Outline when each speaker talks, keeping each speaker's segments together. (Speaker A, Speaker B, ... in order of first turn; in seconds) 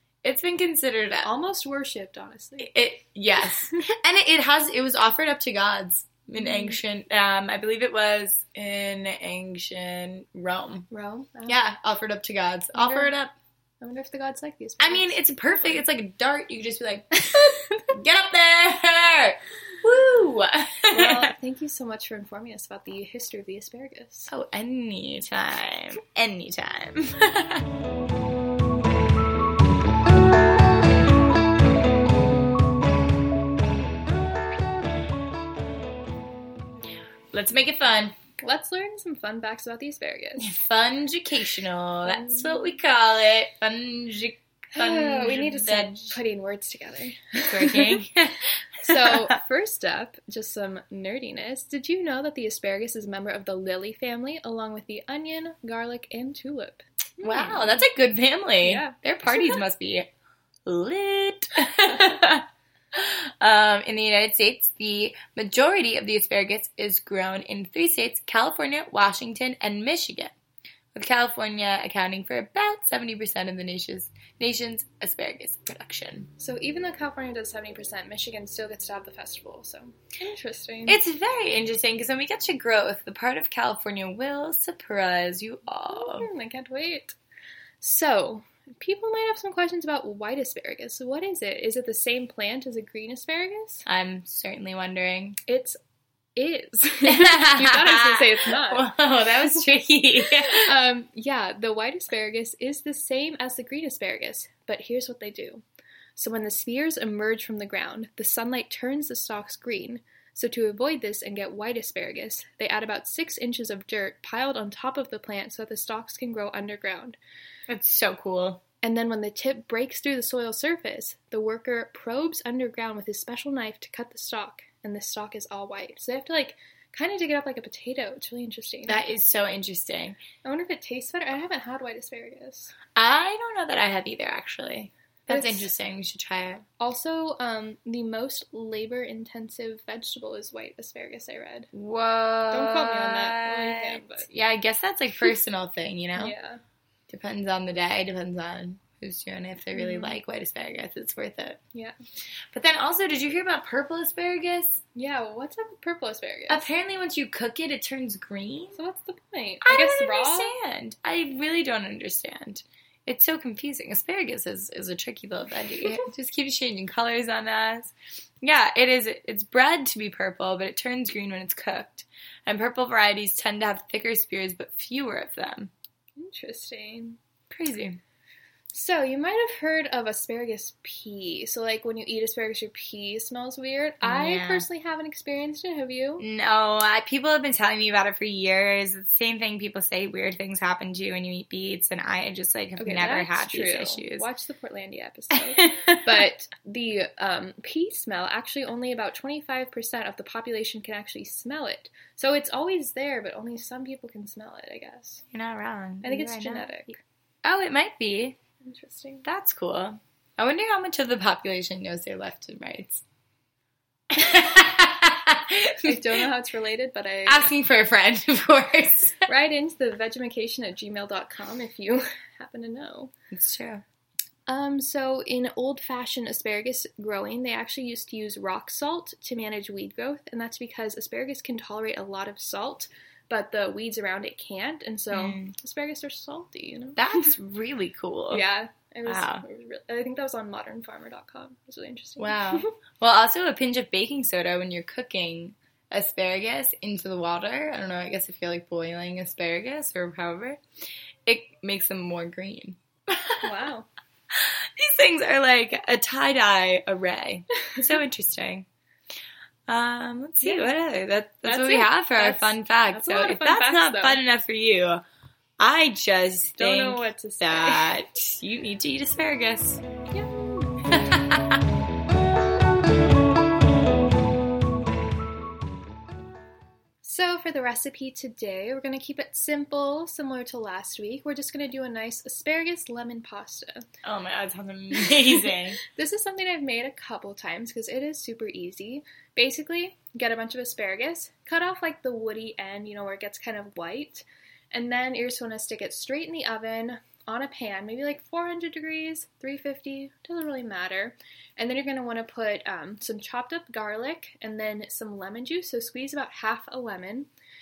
Speaker A: 0.2-1.3, 2.6-10.9, 11.5-13.3, 14.8-21.3, 24.3-27.6, 37.3-38.2, 40.4-46.2, 47.5-49.3, 57.2-60.1, 60.7-70.3, 71.0-76.3, 80.9-86.3, 93.9-95.4, 97.0-100.7, 117.7-118.6, 128.9-130.2, 133.0-136.6, 141.7-146.3, 147.1-151.6, 152.5-154.8, 156.5-158.8, 159.6-175.7, 177.5-178.0, 184.0-184.7, 186.2-194.3, 195.3-196.2, 205.3-208.4, 209.2-213.0, 214.1-216.2, 217.3-219.3, 223.3-223.8, 235.1-235.5, 237.0-238.4, 239.0-239.4, 242.2-250.6, 251.3-253.5, 254.3-258.6, 259.7-265.0, 265.6-269.8, 270.9-271.6, 284.0-285.8
Speaker B: 1.2-2.7, 6.4-6.8, 10.9-11.6, 12.7-13.1, 13.8-15.8, 17.2-17.8, 20.9-24.3, 38.4-40.5, 42.0-42.8, 44.8-47.9, 48.8-57.9, 58.6-59.6, 76.4-81.0, 85.9-87.2, 87.8-93.8, 95.5-95.8, 96.3-98.9, 100.3-105.6, 106.2-117.2, 118.8-129.0, 130.4-132.8, 135.3-135.7, 136.8-141.7, 142.5-144.3, 146.2-146.6, 149.7-150.2, 154.9-156.7, 158.8-160.5, 176.2-177.2, 178.7-186.2, 192.8-205.2, 206.0-207.0, 208.6-209.2, 215.8-217.5, 219.3-223.1, 224.5-237.3, 238.3-242.7, 253.4-253.9, 260.4-260.7, 261.4-264.2, 266.6-267.9, 270.1-270.8, 277.0-283.9, 285.0-307.3